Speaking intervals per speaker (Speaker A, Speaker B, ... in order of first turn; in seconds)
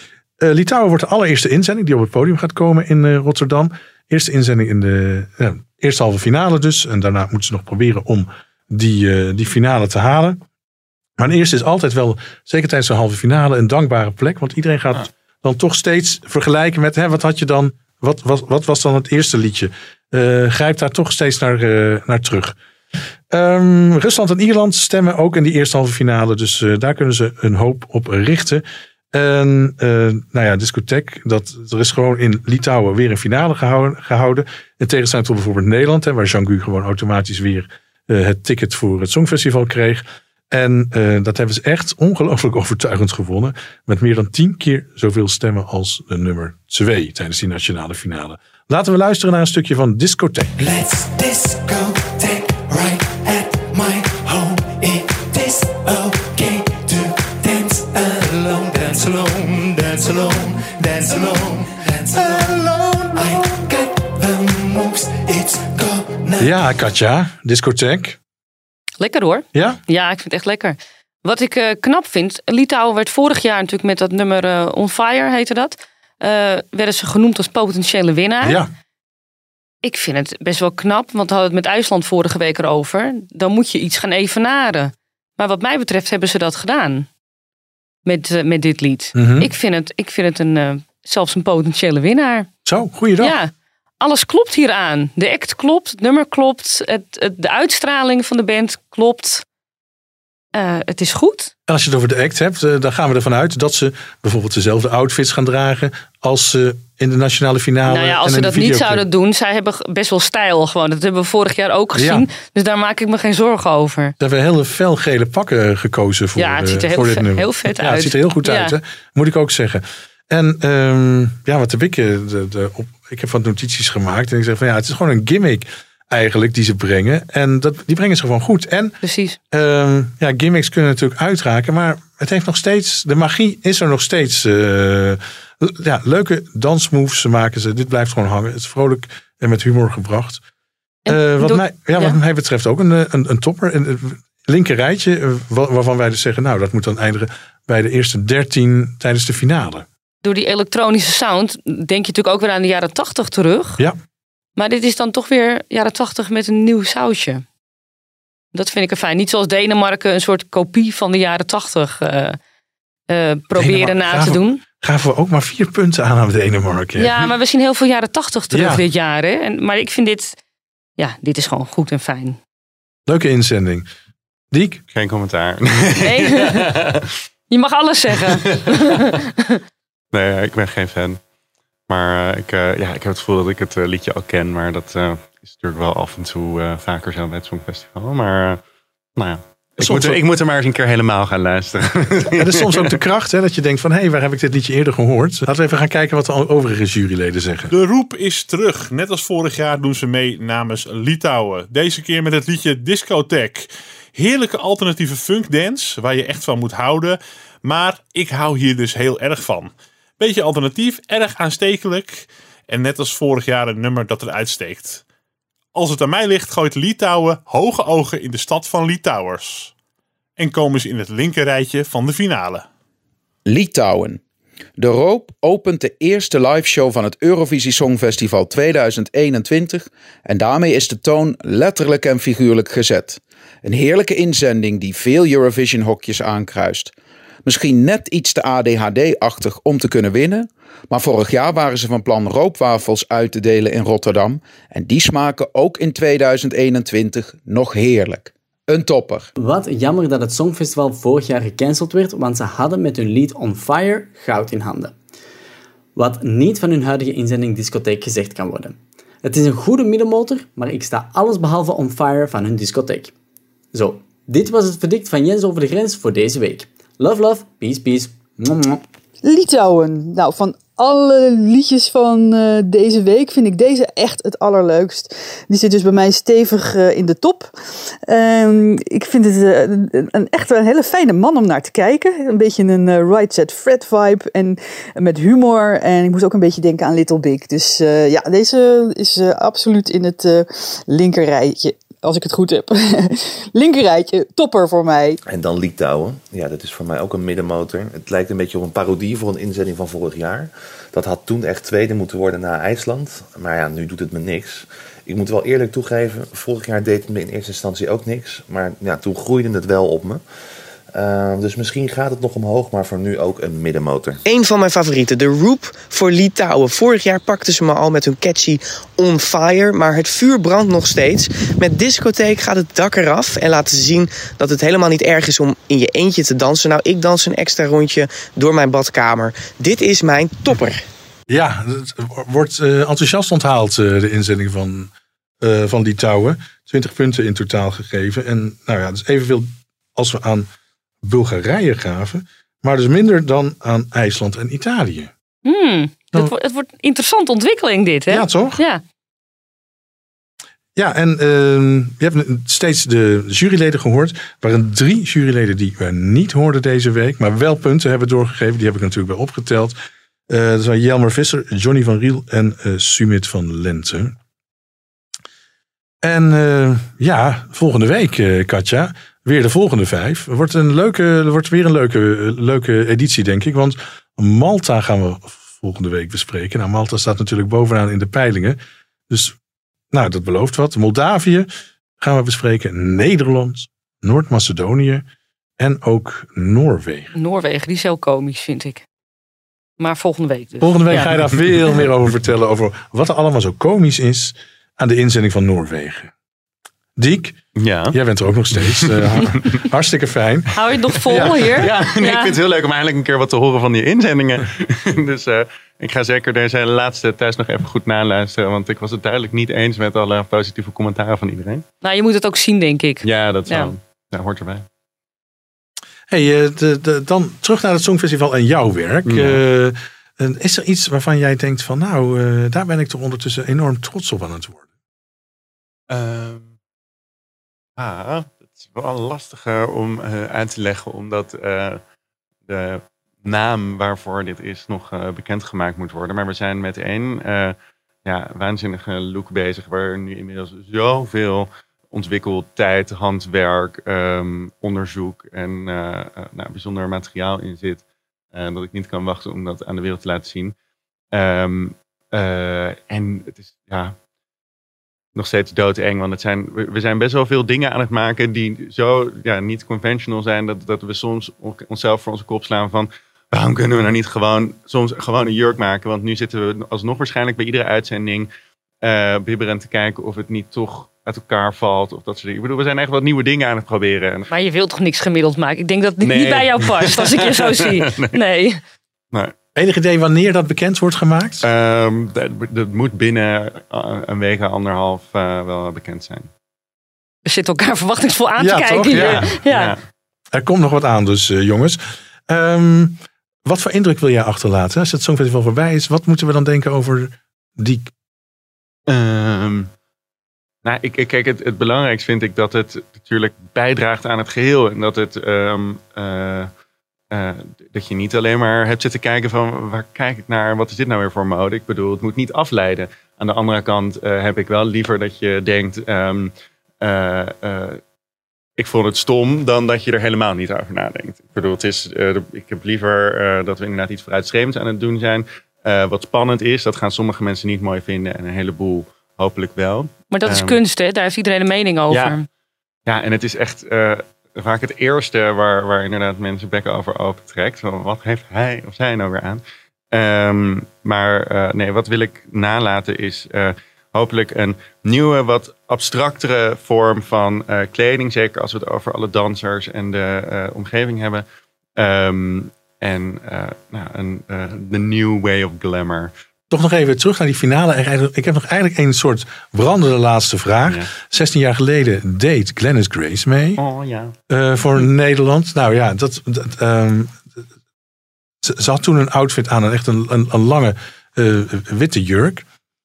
Speaker A: 0.4-10.4, 11.2-22.6, 23.3-50.5, 66.4-68.2, 69.5-69.8, 78.4-78.7, 89.1-89.5, 92.6-93.3, 101.7-109.0, 111.9-112.2, 114.2-129.0, 129.5-140.4, 141.1-149.9, 163.6-167.2, 168.5-168.8, 173.1-173.8, 174.5-174.8, 189.8-190.2, 192.3-197.7, 331.3-340.5, 341.0-345.1, 348.1-348.6, 350.8-359.7, 360.3-364.1, 366.0-378.6, 379.1-379.3, 379.9-381.5, 382.0-385.0, 385.6-387.1, 390.6-396.1, 397.0-397.4, 397.9-400.5, 401.1-401.6, 416.1-424.6, 479.6-481.4, 488.4-489.3, 490.3-497.9, 556.5-563.6, 564.3-567.4, 568.4-572.4
Speaker B: 50.6-66.5
Speaker C: 69.0-78.6, 79.8-87.1, 88.0-92.5, 93.2-99.4, 100.5-101.5, 107.9-114.1, 116.3-118.8, 129.0-129.4, 141.1-142.2, 150.2-153.8, 154.6-157.4, 158.5-162.4, 163.1-164.6, 167.0-170.4, 171.0-172.4, 176.0-176.6, 177.5-179.6, 345.4-348.8, 387.1-388.8, 389.8-391.1, 400.6-402.3, 411.8-413.7, 474.3-478.6, 487.2-489.7, 530.1-532.2
Speaker D: 174.9-177.1, 178.4-178.8, 180.1-181.2, 181.9-188.6, 189.2-192.9, 397.6-398.0, 398.6-399.4, 401.1-411.6, 413.0-414.6, 419.0-419.4, 425.9-426.5, 427.8-431.8, 432.5-450.5, 451.1-453.9, 455.1-468.3, 468.8-474.3, 476.0-478.1, 481.4-486.3, 488.9-489.8, 498.9-499.7, 500.6-506.5, 507.1-517.8, 518.6-530.6, 531.9-532.1, 532.9-539.4, 539.9-551.2, 551.8-556.1, 563.6-564.1
Speaker E: 197.7-215.0, 215.7-219.7, 220.4-222.7
Speaker F: 223.5-224.2, 224.8-236.9, 237.4-249.3
Speaker G: 249.4-254.9, 255.9-263.1, 263.7-268.8
Speaker H: 269.2-277.5, 278.1-295.2
Speaker I: 295.2-310.2, 310.9-314.2
Speaker J: 314.3-330.8